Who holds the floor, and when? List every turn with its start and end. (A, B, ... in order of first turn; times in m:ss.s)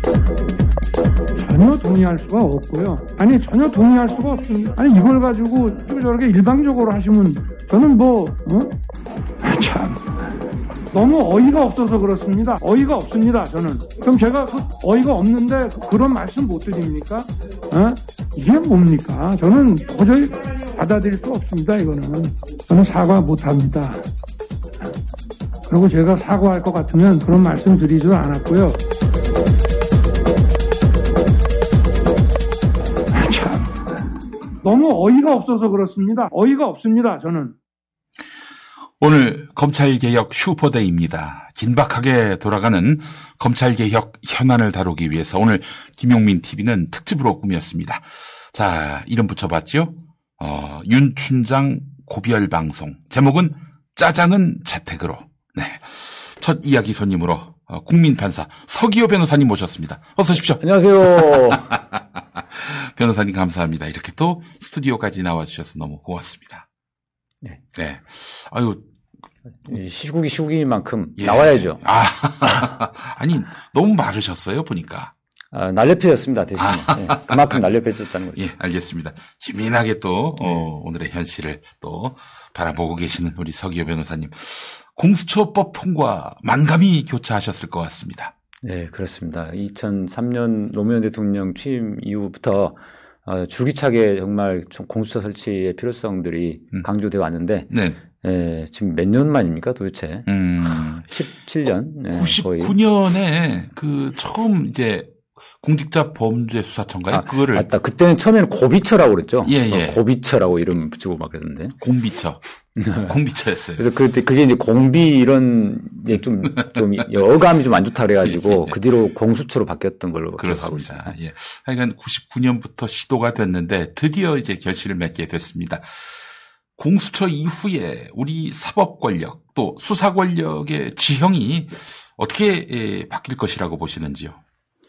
0:01.4-0:08.7 A
0:09.4-0:10.3 A
0:10.9-0:24.0 A
0:25.7-0:28.8 A
0:33.1-0:33.8 A
0:34.6-0:37.5 A
0:39.0-1:00.6 B
1:00.6-1:01.6 C
1:01.2-1:06.6 B
1:07.7-1:08.8 B
1:09.6-1:11.8 C
1:11.2-1:15.1 B
1:15.5-1:18.4 C
1:16.6-1:17.6 B
1:18.4-1:28.3 B
1:28.6-1:37.7 C
1:37.7-1:38.0 B
1:38.2-1:42.7 C
1:40.3-1:41.0 B
1:42.1-1:47.6 B
1:47.1-1:51.8 C
1:49.4-1:50.0 B
1:51.8-1:52.4 B
1:52.8-1:53.1 C
1:53.0-1:53.8 B
1:53.8-2:01.1 C
1:58.2-1:58.8 B
2:00.4-2:05.9 B
2:06.8-2:14.4 B